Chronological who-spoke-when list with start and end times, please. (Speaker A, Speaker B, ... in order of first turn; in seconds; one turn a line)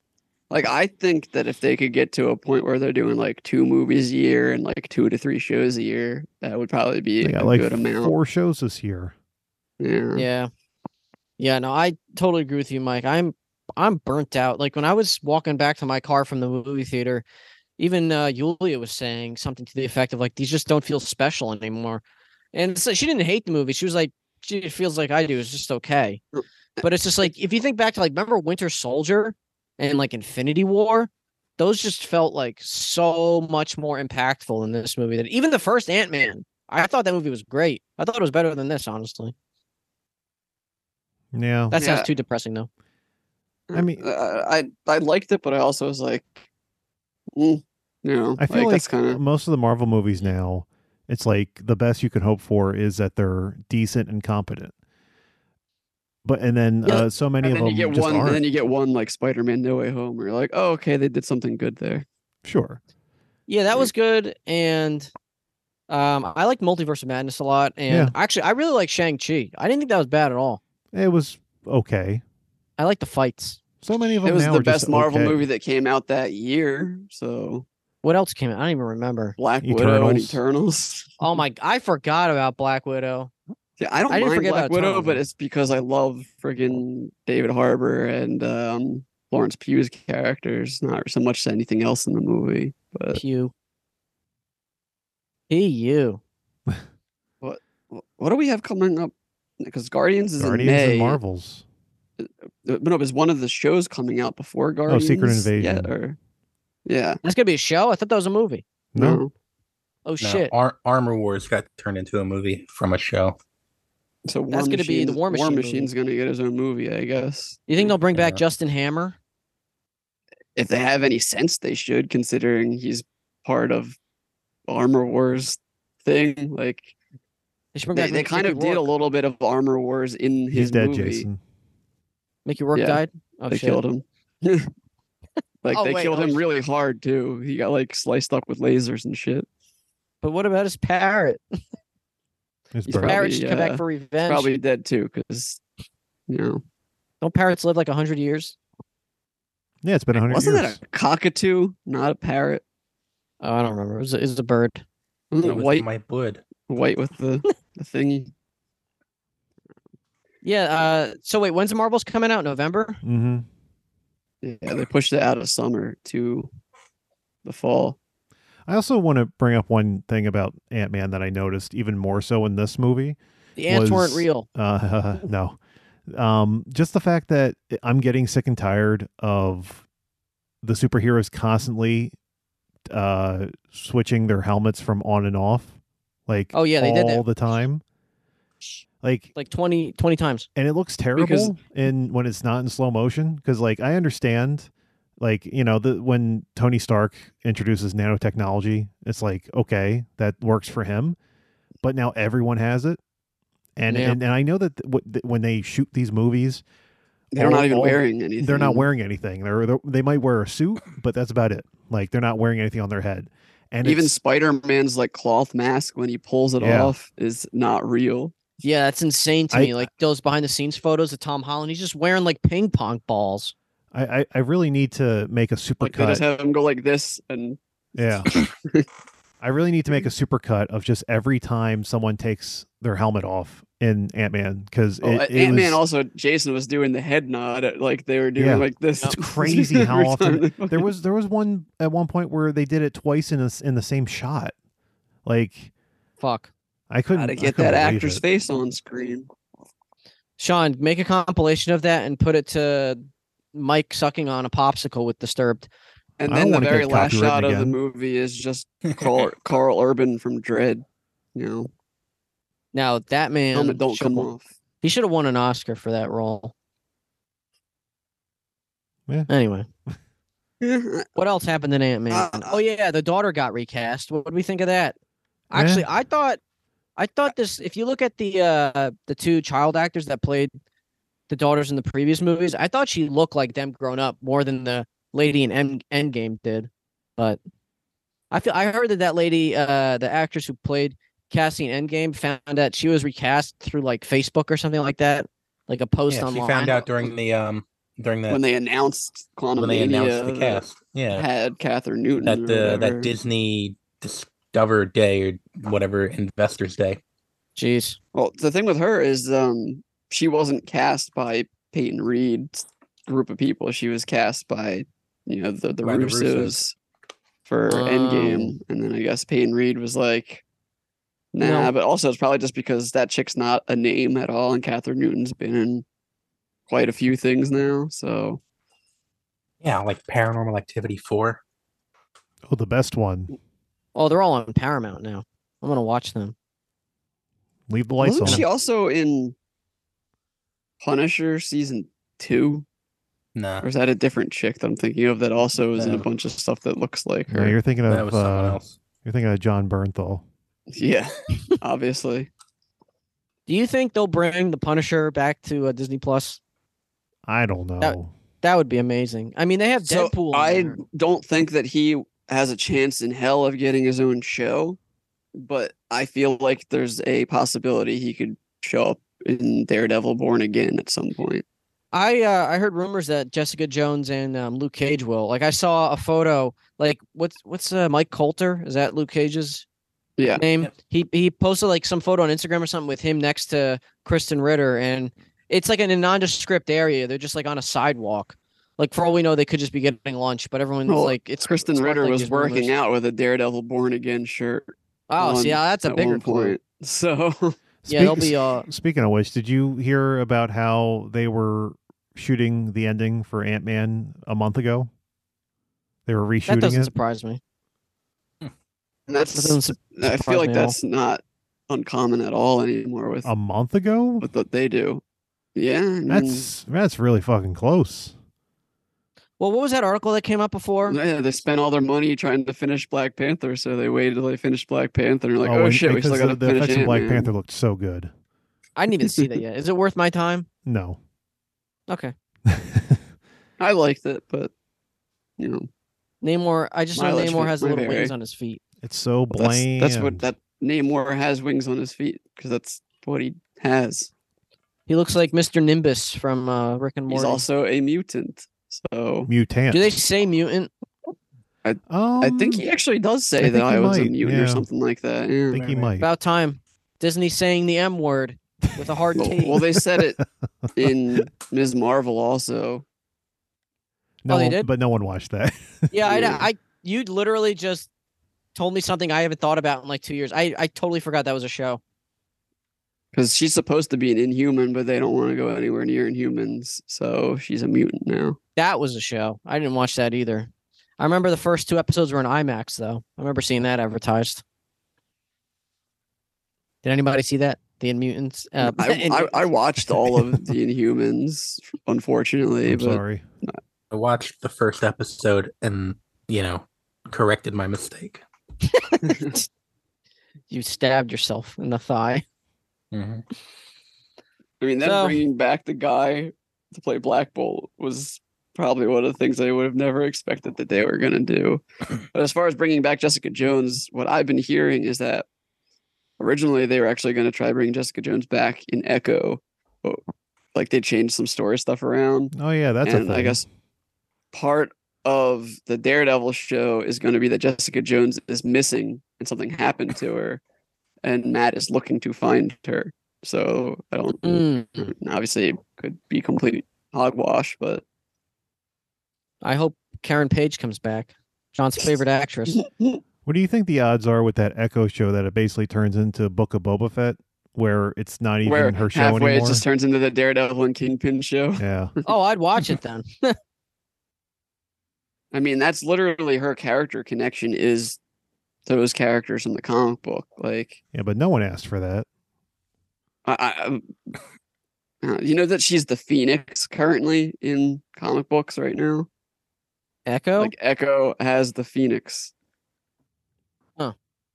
Speaker A: 0.5-8.1
Speaker B: 7.2-9.1
Speaker A: 9.8-10.2
Speaker C: 10.1-10.5
Speaker C: 11.4-17.2
Speaker C: 17.8-22.0
Speaker C: 22.5-26.2
Speaker C: 26.8-39.3
Speaker B: 41.3-41.8
Speaker C: 41.7-42.7
Speaker A: 41.8-42.1
Speaker A: 43.7-46.4
Speaker B: 43.7-44.0
Speaker A: 47.3-49.2
Speaker B: 48.4-54.7
Speaker B: 56.2-58.4
Speaker A: 57.4-62.0
Speaker B: 62.4-62.8
Speaker C: 63.5-65.1
Speaker C: 65.9-70.6
Speaker B: 67.9-68.1
Speaker B: 70.9-72.2
Speaker C: 72.8-73.6
Speaker B: 73.8-75.4
Speaker A: 74.2-77.7
Speaker C: 78.0-79.3
Speaker A: 79.4-81.2
Speaker B: 79.6-80.4
Speaker C: 81.2-83.3
Speaker A: 83.8-93.2
Speaker C: 84.1-85.2
Speaker C: 93.1-93.5
Speaker C: 95.5-96.2
Speaker A: 97.4-101.2
Speaker B: 100.4-101.6
Speaker A: 102.2-106.2
Speaker B: 104.9-105.9
Speaker A: 106.8-107.2
Speaker C: 107.2-108.6
Speaker B: 108.9-109.2
Speaker A: 109.0-109.3
Speaker C: 110.0-110.5
Speaker D: 110.2-113.3
Speaker A: 114.2-117.9
Speaker C: 114.5-115.9
Speaker C: 117.7-119.2
Speaker D: 118.1-118.4
Speaker A: 120.5-124.0
Speaker A: 124.7-126.9
Speaker C: 127.7-128.9
Speaker A: 127.9-131.2
Speaker B: 130.5-131.4
Speaker C: 132.4-133.8
Speaker A: 132.7-134.7
Speaker A: 135.6-139.5
Speaker C: 135.7-136.4
Speaker C: 140.2-141.4
Speaker B: 142.7-143.2
Speaker A: 142.9-145.6
Speaker C: 143.0-144.5
Speaker A: 146.3-146.6
Speaker C: 147.2-148.6
Speaker B: 149.8-150.8
Speaker A: 150.2-152.6
Speaker C: 153.4-154.8
Speaker A: 155.3-155.8
Speaker D: 155.4-156.4
Speaker A: 156.7-158.3
Speaker C: 160.4-163.0
Speaker B: 163.0-163.4
Speaker A: 164.4-166.5
Speaker A: 167.4-168.0
Speaker B: 168.7-175.6
Speaker C: 173.6-174.4
Speaker B: 176.1-179.8
Speaker B: 180.6-182.1
Speaker B: 182.9-185.7
Speaker B: 186.3-187.8
Speaker C: 186.5-187.2
Speaker B: 189.0-189.3
Speaker C: 189.3-190.5
Speaker B: 190.6-201.2
Speaker A: 191.2-191.5
Speaker B: 201.8-203.0
Speaker B: 203.8-206.6
Speaker C: 203.9-204.2
Speaker A: 207.3-208.9
Speaker B: 207.3-214.1
Speaker A: 213.8-218.3
Speaker B: 216.6-216.9
Speaker C: 218.6-223.5
Speaker B: 219.5-219.9
Speaker B: 223.9-226.2
Speaker A: 225.8-227.6
Speaker B: 227.9-228.3
Speaker A: 228.3-228.8
Speaker B: 229.4-235.8
Speaker A: 235.0-240.9
Speaker B: 238.4-244.5
Speaker B: 245.2-245.7
Speaker C: 246.2-246.5
Speaker B: 246.9-248.2
Speaker A: 247.1-249.3
Speaker C: 250.4-253.0
Speaker C: 253.5-255.7
Speaker A: 256.2-261.7
Speaker B: 256.3-257.8
Speaker C: 262.7-264.3
Speaker A: 263.5-264.4
Speaker C: 264.8-266.5
Speaker C: 269.3-269.7
Speaker A: 270.6-271.1
Speaker C: 271.1-274.9
Speaker A: 272.1-272.6
Speaker C: 275.5-276.4
Speaker B: 275.5-275.9
Speaker C: 277.0-280.5
Speaker C: 281.3-287.4
Speaker C: 288.3-296.8
Speaker D: 296.1-298.4
Speaker A: 298.3-303.1
Speaker D: 299.6-301.3
Speaker D: 302.2-307.0
Speaker C: 307.6-308.0
Speaker A: 308.1-316.7
Speaker D: 315.8-316.6
Speaker A: 317.5-320.4
Speaker C: 317.7-318.6
Speaker A: 321.3-325.8
Speaker C: 321.4-321.7
Speaker A: 326.7-328.4
Speaker D: 329.6-331.4
Speaker B: 332.5-333.3
Speaker C: 333.9-336.3
Speaker B: 337.7-338.4
Speaker A: 338.0-339.3
Speaker A: 340.8-342.6
Speaker D: 343.3-343.6
Speaker A: 343.6-347.6
Speaker D: 345.7-346.1
Speaker B: 347.3-350.2
Speaker D: 347.9-348.8
Speaker A: 350.7-352.3
Speaker C: 353.5-356.4
Speaker B: 357.3-358.1
Speaker C: 357.8-360.8
Speaker A: 359.8-364.8
Speaker A: 365.3-371.4
Speaker C: 371.9-379.6
Speaker A: 380.2-380.4
Speaker C: 380.3-392.7
Speaker A: 390.9-397.6
Speaker C: 395.1-396.6
Speaker B: 397.8-404.9
Speaker C: 397.9-398.7
Speaker B: 406.1-406.9
Speaker C: 406.4-407.4
Speaker A: 409.1-413.3
Speaker C: 409.3-410.8
Speaker B: 413.2-414.3
Speaker A: 414.2-415.0
Speaker A: 415.5-416.5
Speaker B: 416.1-418.1
Speaker C: 419.4-421.0
Speaker A: 420.9-427.3
Speaker B: 425.4-428.1
Speaker C: 428.8-430.5
Speaker B: 430.6-431.0
Speaker C: 431.9-432.1
Speaker B: 432.5-433.0
Speaker A: 433.6-434.5
Speaker A: 435.4-435.7
Speaker C: 436.2-438.6
Speaker A: 436.9-438.1
Speaker B: 438.8-440.3
Speaker A: 439.3-444.1
Speaker C: 444.9-447.4
Speaker A: 447.1-449.3
Speaker B: 449.3-449.9
Speaker C: 449.7-450.7
Speaker A: 451.6-455.7
Speaker B: 451.9-452.6
Speaker B: 453.4-454.6
Speaker B: 455.5-456.1
Speaker D: 455.6-455.9
Speaker C: 456.0-459.6
Speaker B: 459.0-460.9
Speaker A: 459.1-460.2
Speaker A: 460.7-462.8
Speaker B: 464.2-466.3
Speaker C: 464.3-464.7
Speaker C: 465.9-467.9
Speaker A: 466.0-466.4
Speaker C: 468.5-471.8
Speaker A: 473.1-478.4
Speaker C: 478.6-484.4
Speaker C: 486.8-489.3
Speaker A: 488.6-493.6
Speaker B: 492.6-493.2
Speaker D: 493.9-498.2
Speaker C: 498.7-499.4
Speaker C: 500.5-502.2
Speaker D: 502.9-503.2
Speaker A: 504.6-515.2
Speaker C: 504.8-505.2
Speaker A: 516.2-520.0
Speaker A: 520.5-522.3
Speaker B: 522.3-523.4
Speaker A: 522.8-523.4
Speaker A: 524.3-530.4
Speaker A: 531.0-537.8
Speaker C: 534.2-534.8
Speaker C: 539.4-542.6
Speaker B: 543.2-549.6
Speaker A: 548.4-551.6
Speaker B: 551.6-551.9
Speaker C: 552.0-553.4
Speaker A: 555.3-558.0
Speaker A: 558.6-560.8
Speaker B: 560.9-562.0
Speaker A: 563.2-563.9
Speaker A: 565.0-569.1
Speaker C: 570.0-570.5
Speaker A: 570.4-572.3